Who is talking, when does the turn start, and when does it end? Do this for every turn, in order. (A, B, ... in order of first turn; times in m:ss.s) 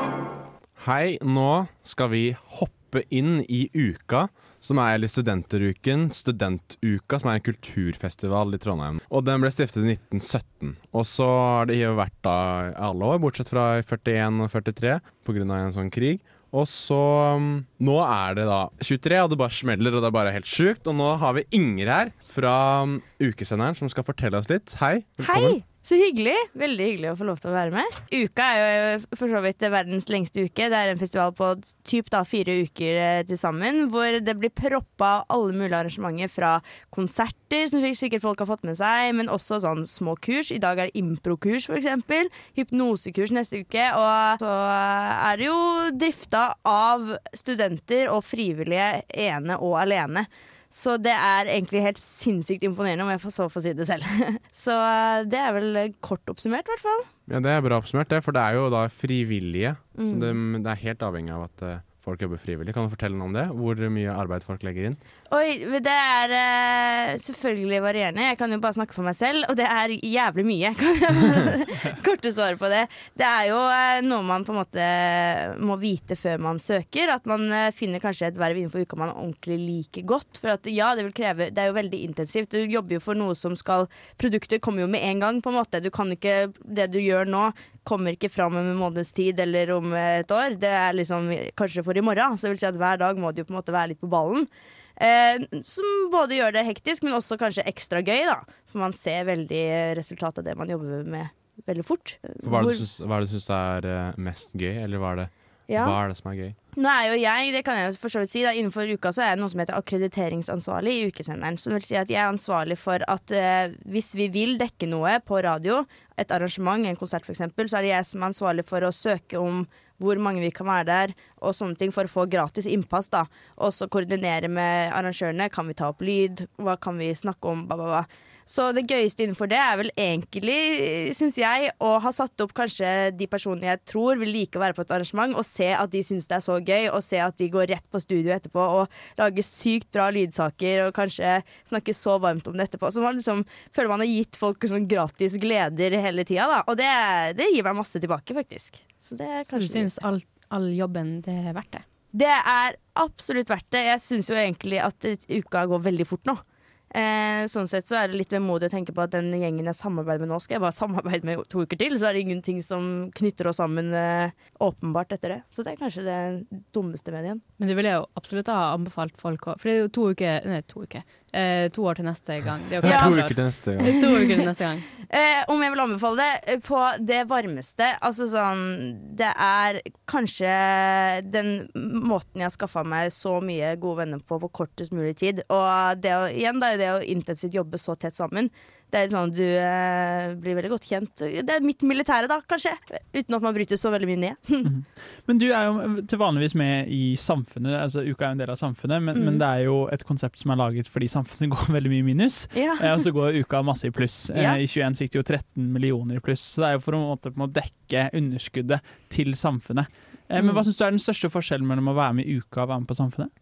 0:00.8-0:25.6 A
0:25.2-0:57.1 B
0:57.3-1:05.0 A
1:00.0-1:00.4 B
1:05.3-1:42.8 B
1:42.4-1:46.6 A
1:45.7-1:46.0 B
1:46.8-2:30.0 B
2:29.5-2:31.9 C
2:32.1-2:47.4 B
2:47.6-2:54.8 C
2:52.8-2:54.0 A
2:52.8-2:53.2 B
2:54.0-2:54.3 B
2:55.0-3:14.7 B
3:14.6-3:33.3 D
3:19.1-3:19.4 B
3:22.6-3:23.1 B
3:24.3-3:24.6 B